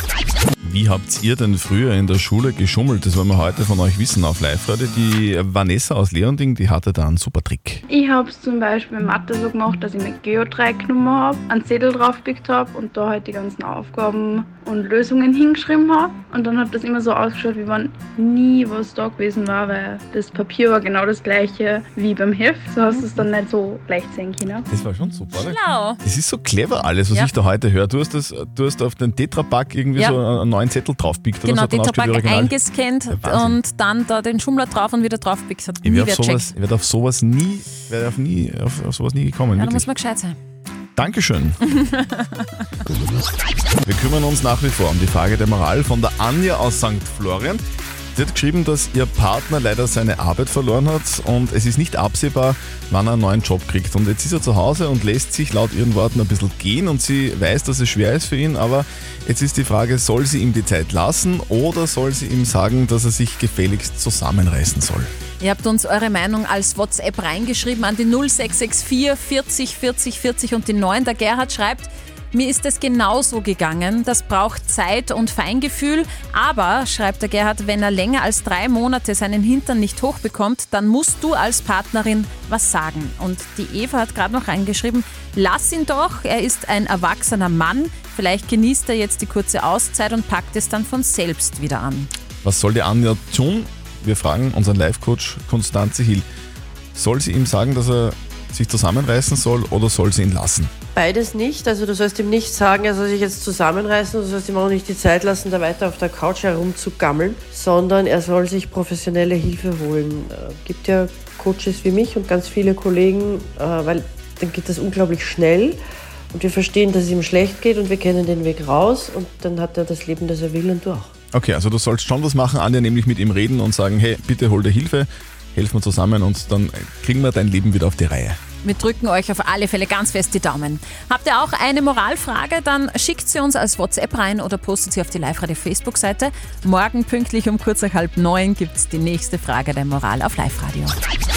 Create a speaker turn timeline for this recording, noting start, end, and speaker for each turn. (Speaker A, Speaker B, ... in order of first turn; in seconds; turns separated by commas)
Speaker A: 0.6-7.8, Speaker B: 7.9-24.7, Speaker C: 22.9-23.2, Speaker A: 24.7-32.5, Speaker C: 25.4-26.0, Speaker C: 31.4-36.5, Speaker A: 33.1-33.6, Speaker A: 35.8-39.9, Speaker C: 39.6-40.4, Speaker A: 41.0-41.6, Speaker C: 41.7-42.6, Speaker A: 43.8-47.6, Speaker A: 48.1-65.1, Speaker C: 65.4-92.1, Speaker A: 92.4-96.3, Speaker A: 97.0-100.7, Speaker D: 101.0-115.8, Speaker D: 116.3-121.1, Speaker A: 121.3-128.4, Speaker C: 128.6-141.0